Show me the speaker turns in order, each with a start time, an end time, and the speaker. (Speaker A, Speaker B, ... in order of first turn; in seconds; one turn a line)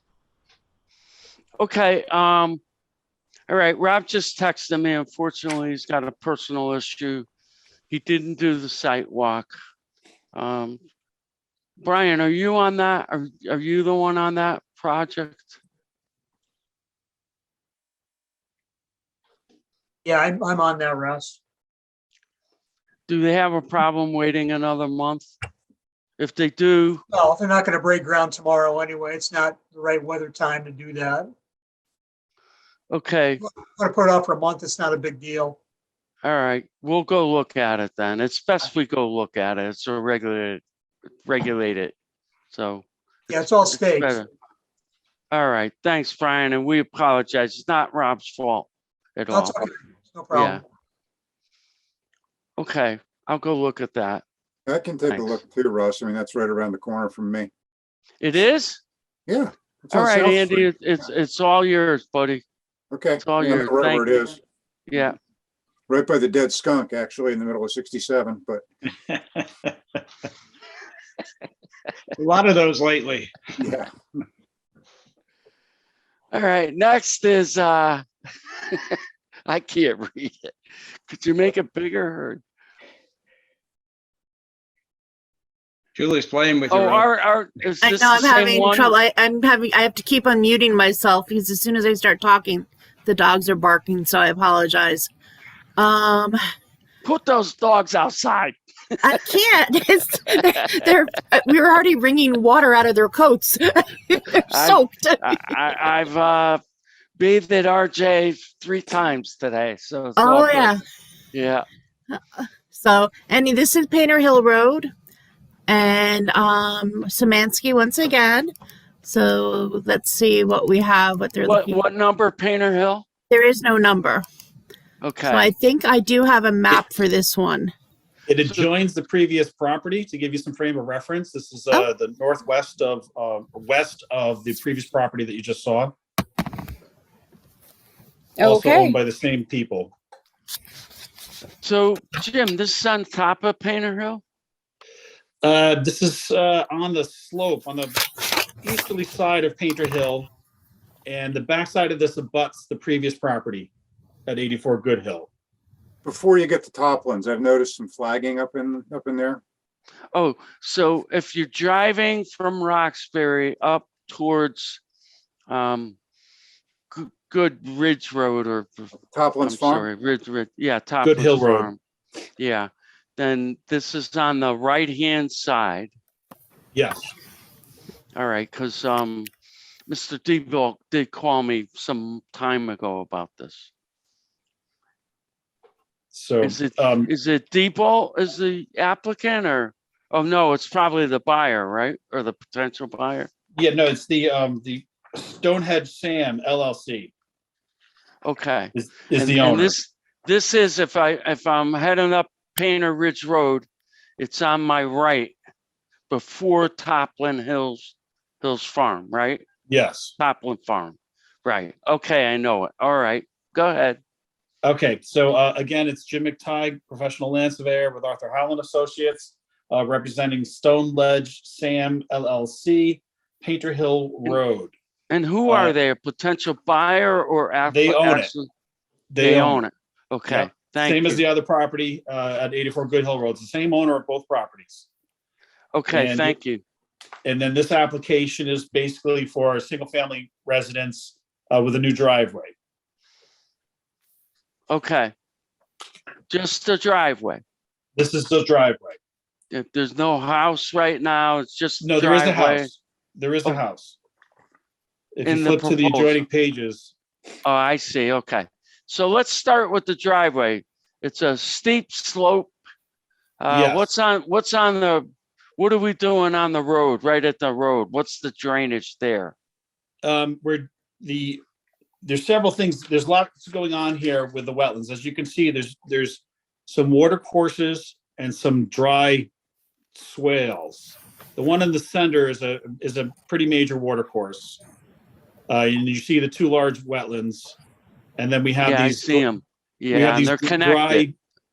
Speaker A: 1.6-2.6
Speaker A: 3.5-7.3
Speaker A: 7.9-9.5
Speaker A: 10.3-10.8
Speaker A: 11.8-15.6
Speaker B: 20.0-21.4
Speaker A: 23.1-25.3
Speaker A: 26.2-27.0
Speaker B: 27.1-31.3
Speaker A: 32.9-33.4
Speaker B: 33.5-35.6
Speaker A: 36.2-40.6
Speaker A: 41.2-41.9
Speaker A: 42.5-44.3
Speaker B: 43.3-44.2
Speaker A: 45.3-49.7
Speaker B: 49.3-50.6
Speaker A: 50.3-50.6
Speaker A: 52.6-54.2
Speaker C: 54.7-57.5
Speaker A: 55.1-55.4
Speaker A: 58.2-58.8
Speaker C: 59.3-60.7
Speaker A: 59.9-62.4
Speaker C: 62.9-64.4
Speaker A: 63.2-64.3
Speaker A: 64.9-65.2
Speaker C: 65.9-68.6
Speaker D: 72.2-73.3
Speaker C: 73.6-73.9
Speaker A: 76.3-78.0
Speaker A: 78.7-80.5
Speaker A: 81.1-82.4
Speaker D: 85.9-87.0
Speaker A: 86.7-89.0
Speaker E: 87.8-95.1
Speaker E: 95.8-96.4
Speaker A: 97.0-98.6
Speaker E: 99.0-105.7
Speaker A: 100.3-100.9
Speaker A: 104.5-106.6
Speaker A: 107.2-110.7
Speaker E: 110.2-110.8
Speaker A: 111.3-111.7
Speaker E: 112.1-114.9
Speaker E: 115.7-118.5
Speaker E: 119.0-121.8
Speaker A: 121.4-123.0
Speaker E: 123.3-124.2
Speaker A: 125.0-125.5
Speaker E: 125.2-127.7
Speaker F: 128.3-135.9
Speaker E: 138.4-139.0
Speaker F: 138.4-139.9
Speaker A: 141.6-144.2
Speaker F: 145.4-148.0
Speaker F: 148.6-150.3
Speaker F: 151.0-153.7
Speaker F: 154.2-155.3
Speaker C: 156.0-159.4
Speaker A: 160.1-164.8
Speaker A: 165.5-166.0
Speaker A: 166.9-171.8
Speaker C: 168.9-169.9
Speaker F: 171.0-171.7
Speaker A: 172.4-175.9
Speaker F: 176.7-177.1
Speaker A: 178.1-179.3
Speaker A: 179.9-183.7
Speaker F: 186.1-187.1
Speaker A: 186.4-193.3
Speaker F: 193.5-197.1
Speaker A: 198.2-203.7
Speaker F: 198.7-199.8
Speaker A: 204.2-205.4
Speaker A: 206.1-209.4
Speaker F: 209.7-210.1
Speaker A: 210.2-214.0
Speaker F: 214.6-224.7
Speaker A: 225.1-228.5
Speaker F: 225.4-225.7
Speaker F: 227.7-228.3
Speaker F: 229.1-229.6
Speaker A: 229.2-231.2
Speaker F: 230.3-234.9
Speaker A: 235.7-236.6
Speaker F: 235.9-236.3
Speaker F: 237.2-242.5
Speaker A: 244.7-245.1
Speaker A: 246.3-247.4
Speaker F: 247.9-249.0
Speaker A: 249.5-252.7
Speaker F: 251.8-254.0
Speaker F: 255.2-256.9
Speaker A: 255.2-256.2
Speaker A: 257.4-262.5
Speaker A: 263.4-269.3
Speaker F: 263.5-263.9
Speaker F: 270.0-271.4
Speaker F: 272.0-279.3
Speaker F: 279.9-284.6
Speaker F: 285.5-287.6
Speaker F: 288.2-289.3
Speaker A: 288.6-291.1
Speaker F: 289.9-291.1